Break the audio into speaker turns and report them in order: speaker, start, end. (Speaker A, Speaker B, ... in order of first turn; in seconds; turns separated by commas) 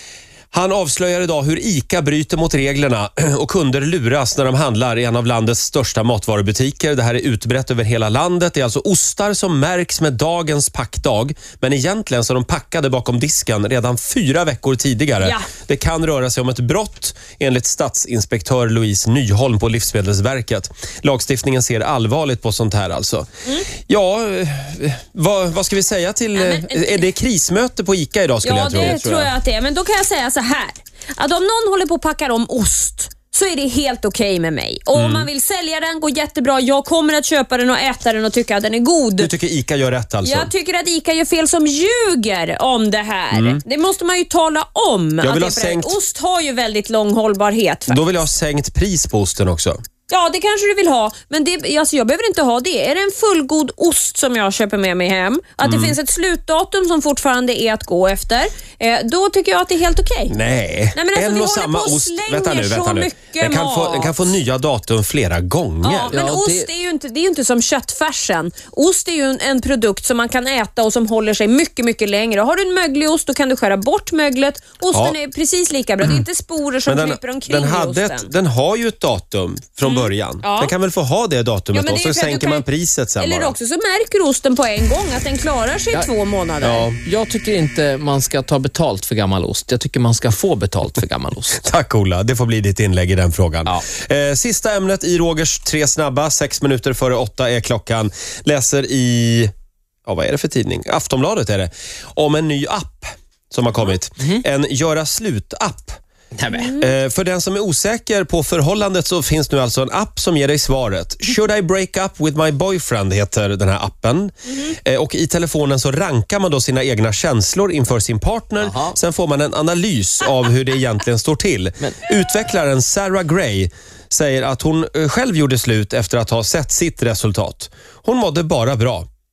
Speaker A: 0.5-29.3, Speaker B: 15.2-15.5, Speaker B: 26.3-27.1, Speaker B: 28.4-39.3, Speaker A: 34.9-35.3, Speaker A: 39.2-40.5, Speaker B: 40.2-48.0, Speaker A: 43.3-43.6, Speaker A: 45.2-46.0, Speaker A: 47.9-49.8, Speaker B: 50.1-60.3, Speaker A: 55.6-56.0, Speaker A: 60.3-66.1, Speaker B: 60.9-64.3, Speaker B: 65.8-78.3, Speaker C: 66.1-66.7, Speaker A: 76.8-83.5, Speaker B: 79.8-80.7, Speaker B: 81.7-82.6, Speaker B: 83.2-86.9, Speaker A: 86.6-87.0, Speaker C: 87.0-91.6, Speaker A: 91.5-99.5, Speaker A: 100.0-106.0, Speaker C: 106.3-106.7, Speaker B: 106.5-106.9, Speaker A: 106.7-129.1, Speaker C: 118.6-119.0